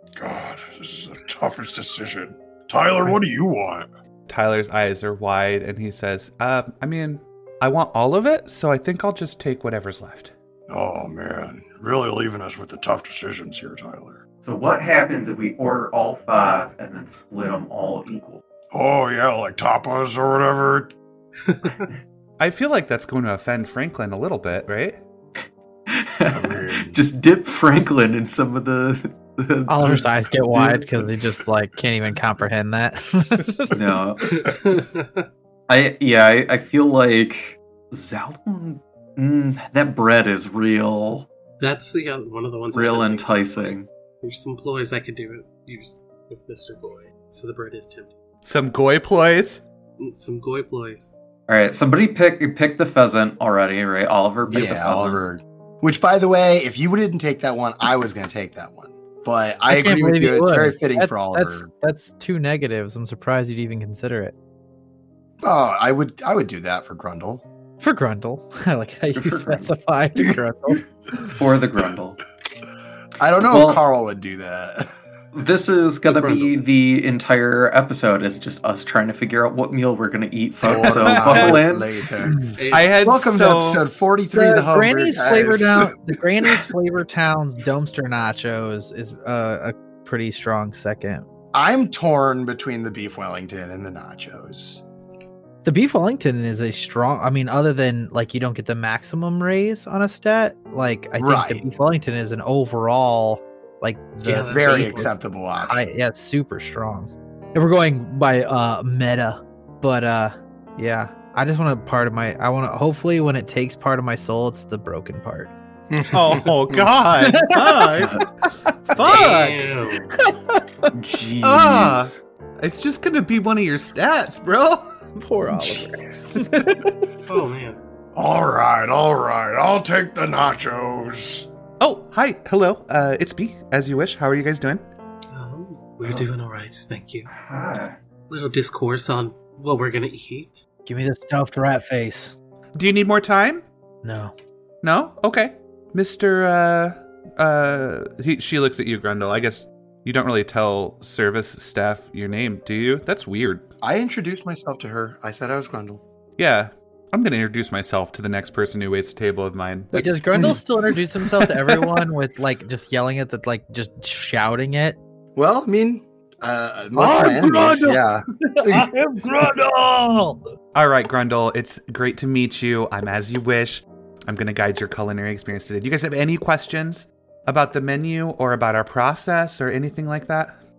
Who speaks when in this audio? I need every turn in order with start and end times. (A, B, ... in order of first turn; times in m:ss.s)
0:00.2-0:03.9 A
0:04.3-0:10.3 B
0:10.7-0:14.2 A
0:14.4-0:18.4 C
0:18.7-0:20.9 A
0:21.5-0:21.8 D
0:22.4-0:25.0 B
0:25.9-0:30.9 E
0:26.3-0:27.0 A
0:29.7-0:33.8 F
0:33.7-0:34.3 E
0:34.4-0:35.2 D
0:35.7-0:41.3 E
0:41.6-0:48.1 D
0:42.7-0:43.9 E
0:48.4-0:49.6 B
0:50.0-0:51.1 D
0:51.5-0:55.2 E
0:54.4-1:01.7 G
0:59.7-1:04.3 F
1:05.4-1:07.4 G
1:07.8-1:11.3 F
1:09.1-1:09.7 E
1:11.2-1:12.2 E
1:13.2-1:14.9 G
1:13.4-1:13.8 E
1:15.3-1:21.9 E
1:16.0-1:16.6 D
1:20.6-1:25.9 G
1:20.8-1:21.6 B
1:22.3-1:22.6 F
1:22.6-1:23.0 D
1:22.7-1:23.8 B
1:24.3-1:31.2 F
1:31.5-1:34.8 G
1:35.6-1:45.1 F
1:41.2-1:41.6 G
1:44.2-1:45.1 D
1:44.5-1:45.8 G
1:45.6-1:55.5 F
1:55.9-1:56.8 G
1:56.1-1:59.6 B
1:57.2-1:57.8 F
1:59.0-2:00.1 D
2:00.9-2:02.2 E
2:01.4-2:05.8 B
2:05.2-2:06.9 F
2:07.3-2:07.8 D
2:08.1-2:11.5 A
2:11.8-2:14.8 B
2:15.3-2:17.3 D
2:16.0-2:16.3 C
2:17.3-2:18.0 C
2:18.3-2:20.6 D
2:20.8-2:22.3 F
2:22.8-2:23.6 B
2:24.0-2:24.3 F
2:24.8-2:33.7 B
2:33.8-2:36.0 G
2:36.4-2:40.6 B
2:39.9-2:45.0 F
2:41.4-2:41.9 B
2:45.4-2:48.9 G
2:46.9-2:50.4 F
2:50.7-3:00.6 B